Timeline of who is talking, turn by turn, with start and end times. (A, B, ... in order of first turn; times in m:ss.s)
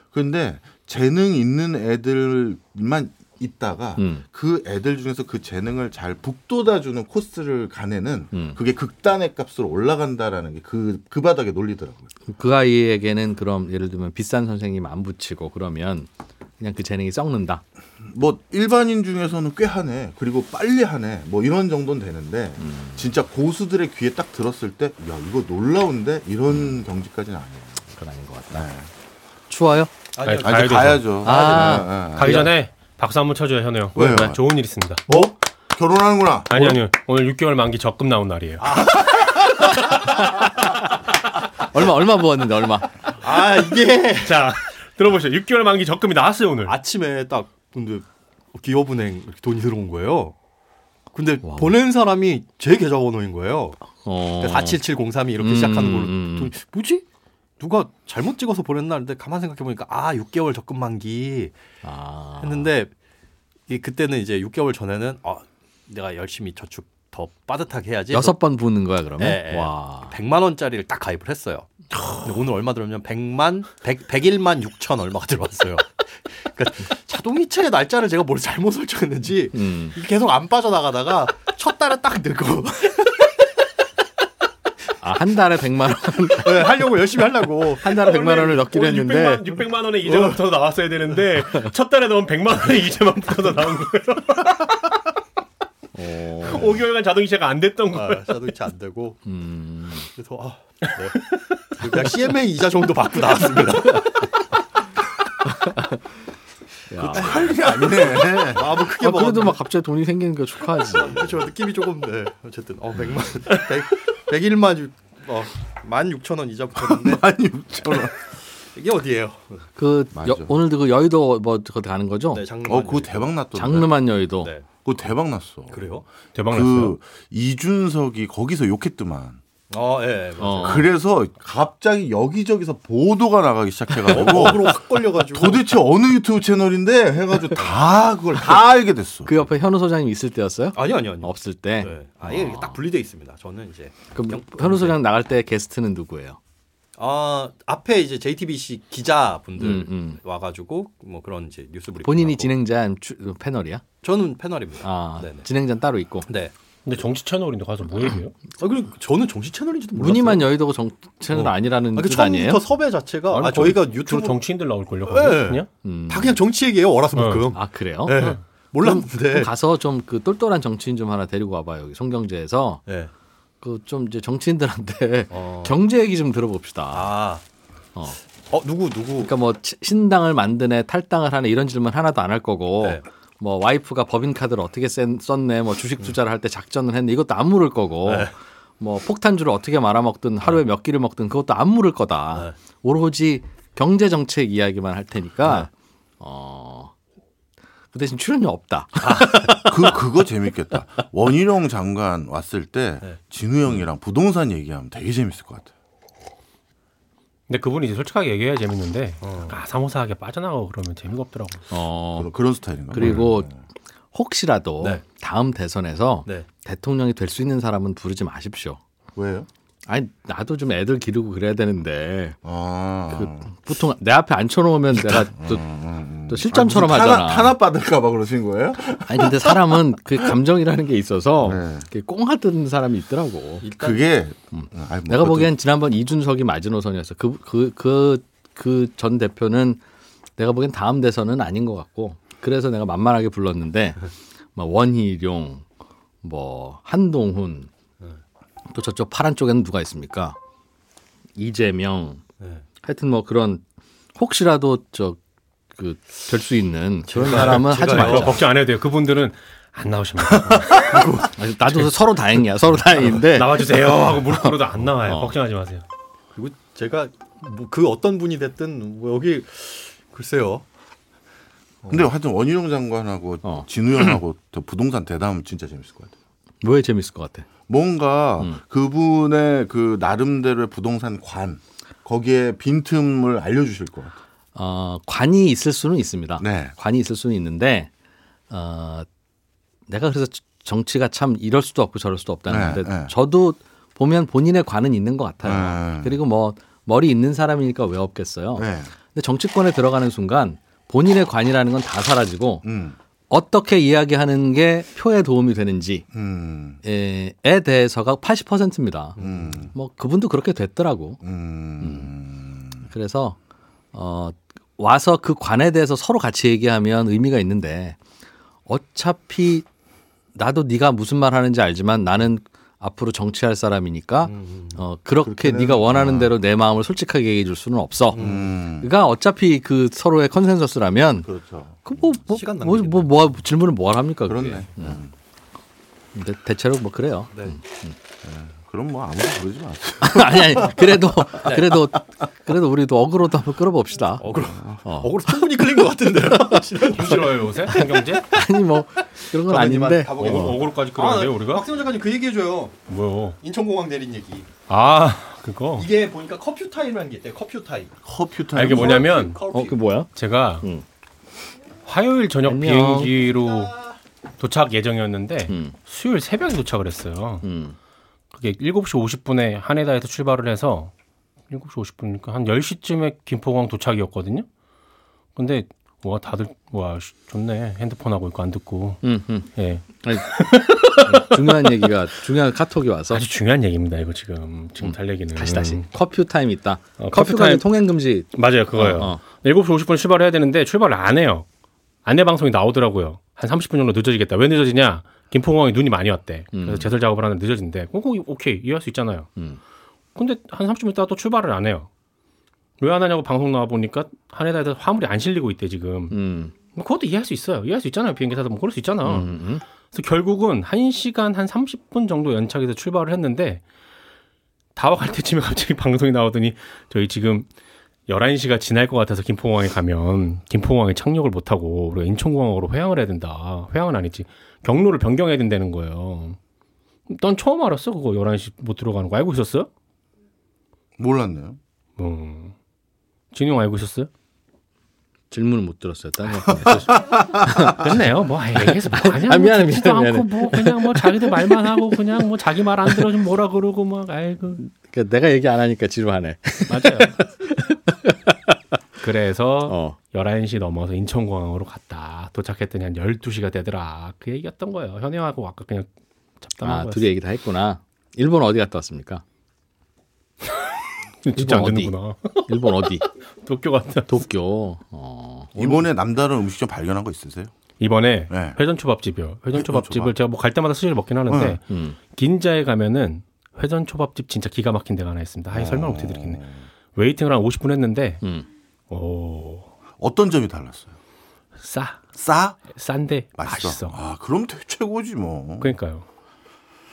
0:00.1-0:12.1 A
0:04.0-0:04.2 B
0:12.3-0:16.1 B
0:16.6-0:17.6 B
0:18.0-0:27.8 A
0:22.6-0:23.1 B
0:27.8-0:28.7 B
0:28.5-0:28.9 A
0:29.5-0:29.9 B
0:30.1-0:31.0 C
0:30.2-0:35.0 D
0:30.4-0:32.5 A
0:31.2-0:32.5 B
0:33.9-0:34.4 A
0:35.1-0:36.8 A
0:36.5-0:39.0 D
0:38.6-0:39.9 C
0:41.7-0:43.0 B
0:43.1-0:44.5 C
0:44.2-0:46.8 D
0:46.6-0:50.3 C
0:51.1-0:53.8 C
0:51.4-0:51.7 B
0:54.0-0:54.8 B
0:54.4-0:57.0 C
0:55.4-0:56.5 B
0:57.6-1:01.5 C
1:01.8-1:02.7 B
1:02.4-1:02.9 C
1:03.7-1:08.4 C
1:08.1-1:10.1 B
1:09.2-1:23.3 C
1:19.5-1:19.9 B
1:25.0-1:26.9 B
1:26.4-1:28.7 C
1:27.8-1:29.4 B
1:28.6-1:34.8 D
1:30.0-1:30.4 C
1:35.9-1:36.8 B
1:36.4-1:38.4 D
1:37.9-1:39.2 C
1:39.2-1:40.1 B
1:40.1-1:44.3 C
1:45.5-1:46.0 B
1:46.9-1:47.5 B
1:47.0-1:48.7 A
1:47.1-1:49.6 C
1:49.0-1:51.4 B
1:50.9-1:57.2 C
1:56.8-1:58.1 A
1:58.7-1:59.6 C
1:59.8-2:02.4 B
2:00.1-2:00.6 A
2:02.3-2:03.3 C
2:02.6-2:03.9 A
2:03.5-2:04.5 B
2:04.4-2:04.7 C
2:04.8-2:05.9 A
2:05.7-2:06.0 C
2:06.3-2:07.0 D
2:06.5-2:09.4 A
2:09.7-2:10.9 C
2:10.4-2:10.9 B
2:10.6-2:19.3 A
2:14.0-2:15.7 C
2:19.2-2:22.8 B
2:20.7-2:25.0 C
2:24.1-2:26.4 B
2:27.0-2:32.5 C
2:29.6-2:30.2 B
2:32.0-2:33.8 B
2:34.0-2:35.5 C
2:34.8-2:36.3 B
2:36.3-2:36.5 C
2:36.8-2:38.3 D
2:38.6-2:40.5 C
2:40.0-2:42.6 B
2:41.3-2:44.4 C
2:43.3-2:45.7 D
2:45.1-2:49.5 C
2:45.8-2:46.4 B
2:47.1-2:47.5 D
2:47.5-2:52.8 B
2:53.6-2:57.1 B
2:55.3-2:55.8 C
2:56.9-2:57.4 C
2:58.5-2:59.3 C
2:59.2-3:16.9 B
3:08.0-3:08.3 C
3:17.9-3:20.0 B
3:19.0-3:19.7 C
3:19.6-3:25.7 A
3:27.5-3:31.6 D
3:29.2-3:29.6 C
3:31.7-3:32.3 B
3:32.2-3:33.6 A
3:32.9-3:33.5 B
3:34.1-3:38.8 B
3:39.2-3:39.5 A
3:39.9-3:42.4 B
3:42.4-3:43.5 A
3:43.1-3:45.6 B
3:44.9-3:50.2 A
3:46.3-3:47.6 B
3:49.0-3:53.6 B
3:51.4-3:51.9 A
3:53.6-3:54.0 C
3:53.7-3:55.5 A
3:54.5-3:59.8 B
4:00.4-4:05.6 B
4:06.2-4:07.7 B
4:08.7-4:10.4 B
4:11.4-4:12.2 B
4:12.8-4:13.6 B
4:14.2-4:15.2 B
4:15.7-4:18.4 B
4:17.1-4:18.4 C
4:17.3-4:21.1 D
4:20.5-4:21.4 C
4:21.3-4:25.4 B
4:23.0-4:25.8 D
4:26.3-4:30.6 C
4:31.9-4:36.1 A
4:36.6-4:37.5 B
4:37.7-4:44.2 A
4:44.5-4:47.9 B
4:46.4-4:46.7 A
4:48.5-4:49.1 B
4:49.9-5:02.6 B
4:52.5-4:53.1 A
4:55.4-4:56.2 A
4:58.6-4:58.9 A
5:02.6-5:03.0 A
5:03.3-5:06.0 B
5:06.1-5:06.8 A
5:06.8-5:11.2 B
5:09.2-5:09.5 C
5:09.2-5:09.7 A
5:11.2-5:12.9 A
5:11.8-5:12.1 B
5:12.9-5:13.4 B
5:13.9-5:18.0 B
5:18.7-5:19.6 B
5:20.3-5:31.3 B
5:24.2-5:24.8 C
5:25.2-5:26.3 A
5:28.1-5:28.5 C
5:28.1-5:28.9 A
5:31.2-5:32.1 A
5:31.8-5:35.0 B
5:32.3-5:33.1 C
5:34.3-5:35.1 A
5:36.1-5:38.0 B
5:37.3-5:37.6 C
5:38.2-5:41.4 A
5:40.0-5:44.3 B
5:41.4-5:41.8 C
5:44.2-5:48.4 C
5:44.5-5:44.8 A
5:44.8-5:45.2 B
5:46.3-5:46.6 B
5:46.8-5:48.3 D
5:48.3-5:50.6 B
5:49.3-5:52.8 C
5:50.2-5:51.7 D
5:52.9-5:53.4 D
5:53.4-5:54.5 C
5:54.7-5:55.9 D
5:55.8-5:57.9 C
5:58.0-5:59.1 A
5:58.5-5:59.4 D
5:58.6-5:59.8 C
5:59.5-6:00.1 B
6:00.1-6:00.6 D
6:01.8-6:03.8 D
6:02.4-6:03.2 B
6:04.4-6:07.4 D
6:05.5-6:05.8 B
6:07.4-6:07.8 B
6:08.3-6:10.9 D
6:11.5-6:14.4 D
6:15.4-6:19.0 D
6:19.0-6:19.5 B
6:19.5-6:21.9 D
6:20.0-6:23.2 B
6:23.1-6:25.8 D
6:24.8-6:29.2 B
6:27.0-6:27.7 D
6:28.3-6:31.4 D
6:32.0-6:39.3 D
6:36.5-6:36.9 B
6:40.1-6:41.9 D
6:42.8-6:46.2 D
6:46.1-6:46.5 B
6:46.7-6:49.3 D
6:49.0-6:49.6 B
6:49.9-6:53.6 D
6:54.8-6:57.5 D
6:58.1-7:06.4 D
7:07.1-7:09.7 D
7:11.0-7:11.6 A
7:12.0-7:12.5 D
7:13.3-7:14.1 D
7:15.3-7:18.0 B
7:16.5-7:17.8 A
7:17.7-7:24.6 D
7:18.6-7:22.0 B
7:24.6-7:28.6 B
7:26.7-7:27.2 D
7:29.0-7:35.9 D
7:29.6-7:30.0 B
7:36.4-7:37.1 D
7:36.6-7:39.2 B
7:41.2-7:44.2 D
7:41.3-7:41.9 B
7:42.5-7:43.0 B
7:44.1-7:45.8 B
7:45.5-7:47.5 A
7:47.8-7:56.4 D
7:48.3-7:48.6 A
7:49.5-7:50.1 A
7:51.3-7:51.6 A
7:51.7-7:52.0 B
7:55.5-7:56.6 A
7:56.9-7:58.2 D
7:58.9-7:59.7 D
8:00.0-8:00.9 A
8:01.6-8:02.1 D
8:02.2-8:02.6 A
8:02.7-8:04.0 D
8:03.4-8:05.8 A
8:05.6-8:06.0 D